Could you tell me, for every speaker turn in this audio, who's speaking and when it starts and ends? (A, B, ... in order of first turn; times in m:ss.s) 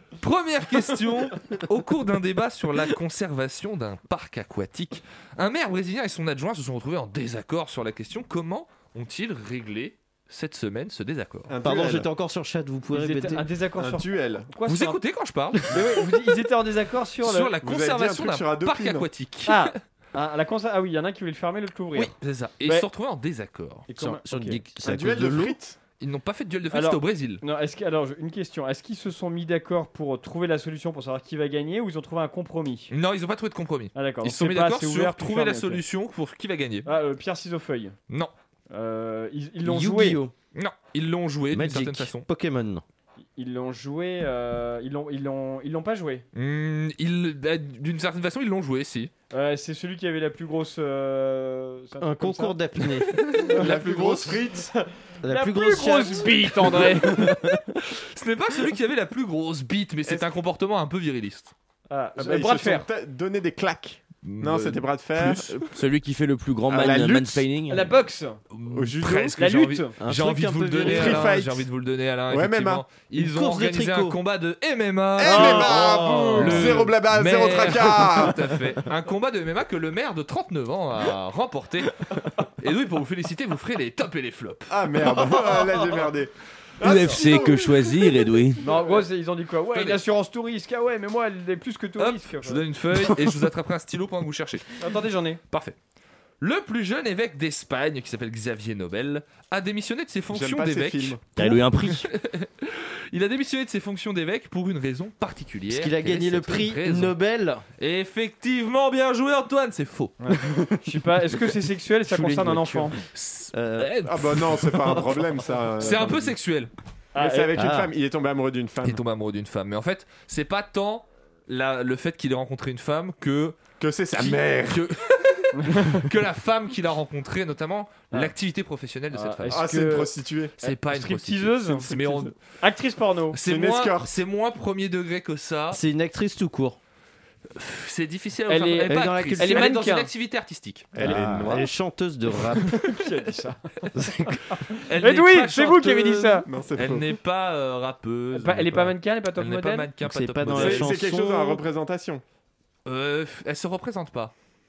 0:00.2-0:11.5 A
0:11.5-0:12.1 B
0:11.6-0:13.4 C
0:12.9-0:15.0 D
0:13.8-0:14.5 B
0:14.6-0:16.0 A
0:15.7-0:17.5 D
0:17.2-0:19.8 A
0:17.6-0:19.1 B
0:19.4-0:22.9 D
0:22.0-0:23.9 A
0:23.9-0:24.6 D
0:24.0-0:25.5 E
0:24.2-0:25.5 C
0:24.8-0:25.8 B
0:26.0-0:27.4 A
0:26.7-0:32.9 D
0:32.9-0:36.9 A
0:33.9-0:35.8 D
0:36.8-0:37.9 D
0:38.7-0:40.2 D
0:39.6-0:40.3 C
0:40.5-0:42.2 A
0:41.5-0:42.8 C
0:43.4-0:46.2 D
0:46.3-0:49.1 A
0:49.3-0:52.6 D
0:52.0-0:53.1 C
0:53.2-0:54.4 A
0:53.3-0:54.7 B
0:53.5-0:53.8 D
0:54.4-0:57.4 D
0:55.2-0:56.6 C
0:57.9-1:01.5 A
1:01.9-1:02.9 D
1:02.2-1:05.7 B
1:04.2-1:05.5 A
1:05.6-1:07.9 E
1:06.7-1:07.5 B
1:07.7-1:08.4 D
1:08.5-1:22.0 A
1:08.7-1:09.4 B
1:09.4-1:10.0 D
1:10.0-1:11.2 E
1:10.8-1:11.7 B
1:12.3-1:12.8 B
1:13.2-1:14.1 C
1:15.2-1:18.6 B
1:15.2-1:16.8 D
1:22.6-1:25.1 A
1:24.7-1:28.0 B
1:26.8-1:28.6 E
1:28.6-1:32.6 D
1:29.7-1:30.0 A
1:32.0-1:34.9 A
1:34.8-1:35.4 D
1:35.5-1:35.8 A
1:36.4-1:41.2 A
1:40.3-1:41.5 B
1:41.4-1:42.1 E
1:41.8-1:47.2 A
1:45.7-1:47.6 C
1:47.8-1:50.2 A
1:50.2-1:53.0 D
1:52.6-1:52.9 C
1:53.1-1:55.0 A
1:53.5-1:53.9 C
1:54.0-1:56.3 B
1:55.8-1:56.7 A
1:57.1-1:57.7 D
1:57.2-1:59.0 B
1:57.6-1:57.9 C
1:58.8-2:03.6 A
2:03.8-2:04.8 B
2:04.1-2:09.7 A
2:05.6-2:06.1 D
2:09.1-2:13.4 D
2:09.5-2:10.6 B
2:10.6-2:12.3 A
2:13.3-2:15.8 A
2:13.4-2:14.1 B
2:15.7-2:16.8 C
2:17.5-2:20.9 A
2:18.5-2:20.1 D
2:18.9-2:19.8 C
2:20.9-2:21.7 B
2:21.0-2:22.8 C
2:22.6-2:23.6 D
2:23.9-2:24.3 C
2:24.5-2:26.5 D
2:24.8-2:31.0 A
2:26.4-2:27.1 B
2:28.3-2:29.9 D
2:30.0-2:31.6 C
2:30.5-2:32.2 B
2:32.8-2:34.3 A